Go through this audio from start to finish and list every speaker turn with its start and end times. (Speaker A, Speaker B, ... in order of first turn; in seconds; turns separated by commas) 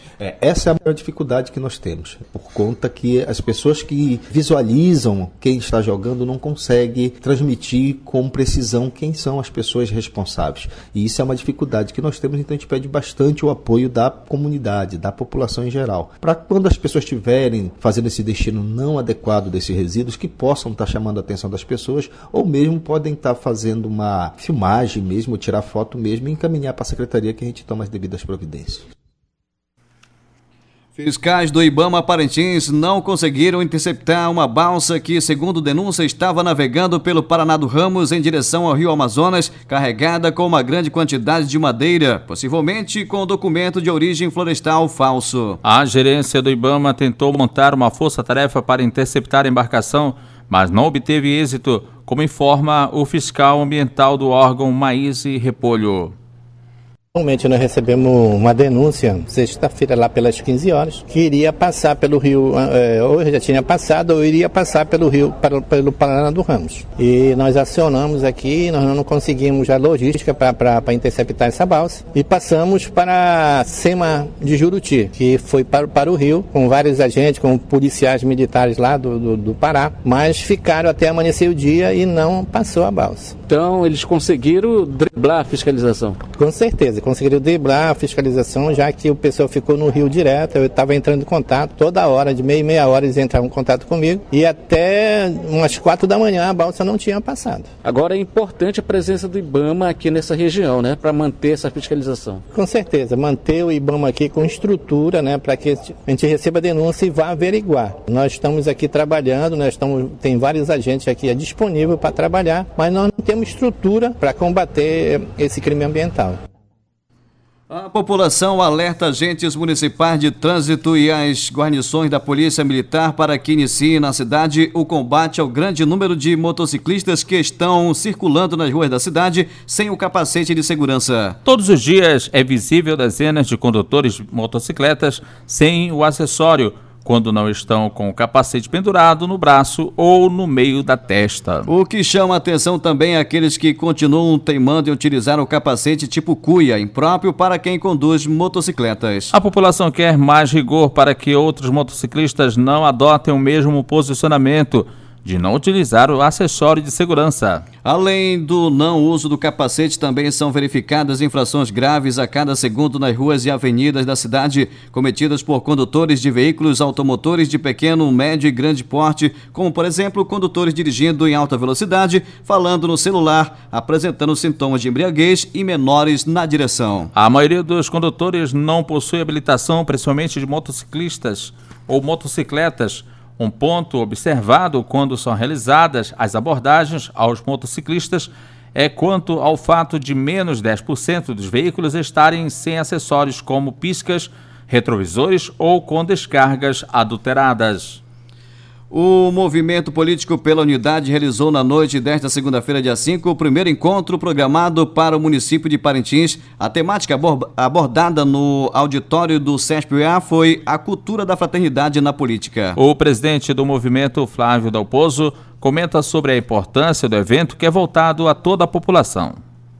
Speaker A: 0.2-28.9, Speaker B: 30.9-45.6, Speaker C: 45.6-56.1, Speaker D: 57.1-83.3, Speaker E: 83.5-86.2, Speaker D: 86.3-97.7, Speaker E: 97.8-102.4, Speaker D: 102.5-116.4, Speaker B: 117.7-131.4, Speaker C: 131.4-141.7, Speaker B: 141.7-149.3, Speaker C: 149.3-157.6, Speaker B: 157.8-177.1, Speaker C: 177.1-198.0, Speaker B: 198.9-212.8, Speaker C: 212.8-219.4